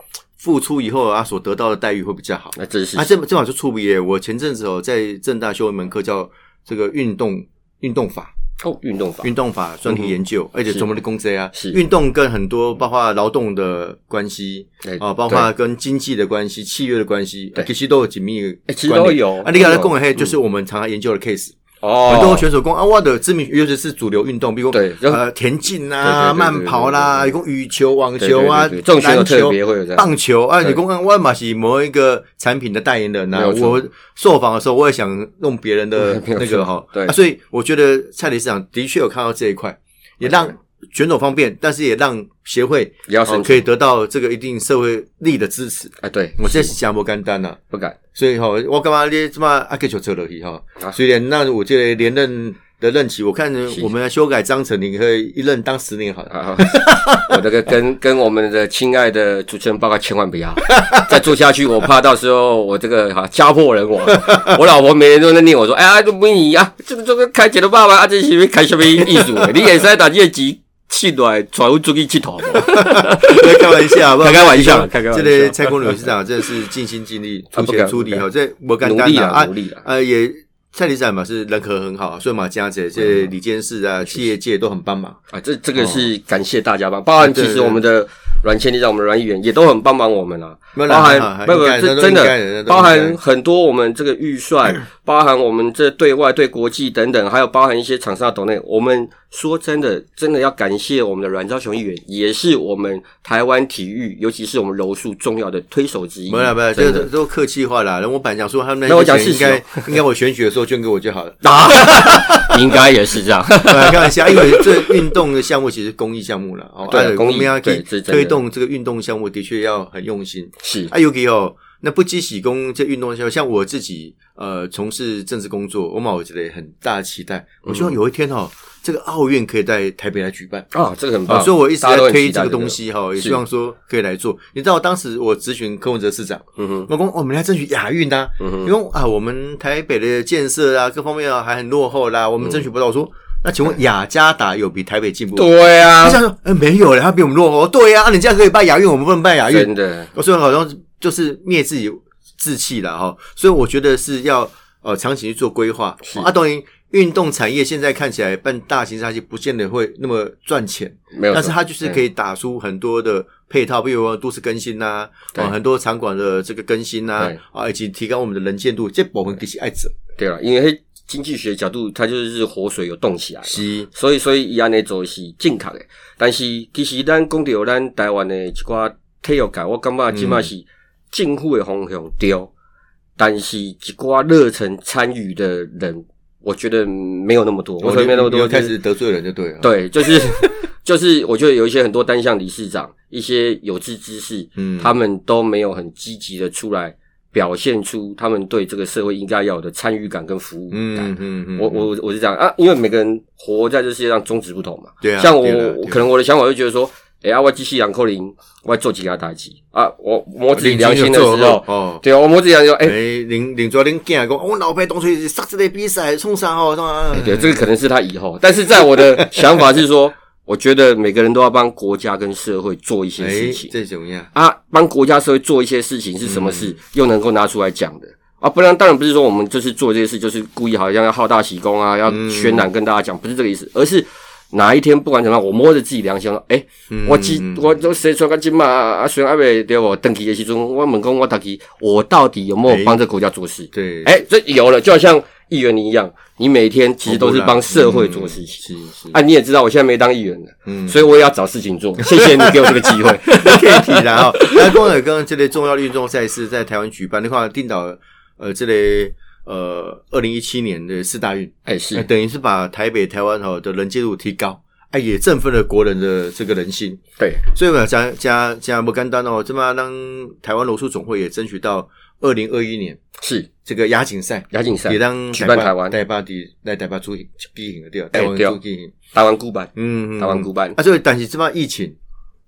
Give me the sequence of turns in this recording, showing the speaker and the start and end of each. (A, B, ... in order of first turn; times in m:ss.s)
0:00.4-0:08.3 A
0:02.5-0:03.0 B
0:08.6-0:09.3 B
0:09.2-0:21.5 A
0:09.8-0:10.1 B
0:14.8-0:15.5 B
0:18.7-0:20.3 B
0:21.8-0:22.5 B
0:22.0-0:47.6 A
0:24.7-0:25.2 B
0:26.0-0:27.3 B
0:28.2-0:30.1 B
0:33.3-0:33.8 B
0:36.0-0:37.1 B
0:40.2-0:40.5 B
0:43.1-0:43.7 B
0:46.0-0:46.7 B
0:47.7-0:48.0 B
0:48.1-0:57.4 A
0:56.3-1:16.1 B
1:00.8-1:01.1 A
1:04.1-1:04.6 A
1:09.0-1:09.5 A
1:12.5-1:25.2 A
1:17.5-1:18.2 B
1:18.8-1:19.8 B
1:23.0-1:23.3 B
1:25.3-1:47.1 B
1:25.8-1:26.1 A
1:27.2-1:27.8 A
1:30.7-1:33.2 A
1:46.3-1:52.8 A
1:48.9-1:49.9 B
1:51.4-1:55.2 B
1:53.6-2:10.6 A
1:56.9-1:58.4 B
2:00.6-2:00.9 B
2:07.6-2:07.9 B
2:10.7-2:13.4 B
2:11.3-2:49.9 A
2:16.6-2:16.9 B
2:18.4-2:18.7 B
2:25.4-2:26.2 B
2:29.5-2:30.1 B
2:41.1-2:42.0 B
2:50.2-3:02.5 B
2:53.5-2:53.9 A
3:00.1-3:00.5 A
3:03.2-3:08.7 B
3:07.8-3:10.6 A
3:09.6-3:33.0 B
3:14.6-3:14.9 A
3:20.7-3:21.9 A
3:25.0-3:26.0 A
3:30.5-3:32.0 A
3:32.8-3:37.7 A
3:37.1-3:43.7 B
3:38.9-3:39.6 A
3:43.2-3:44.3 A
3:44.3-4:14.8 B
3:46.2-3:46.7 A
3:52.1-3:52.6 A
3:56.9-3:57.7 A
4:02.7-4:03.0 A
4:03.7-4:04.1 A
4:07.0-4:09.2 A
4:10.6-4:11.0 A
4:12.0-4:33.0 A
4:21.6-4:22.0 B
4:33.2-4:33.5 B
4:33.6-4:38.9 A
4:34.5-4:36.0 B
4:38.1-4:38.6 B
4:39.1-4:40.8 B
4:39.8-4:41.9 A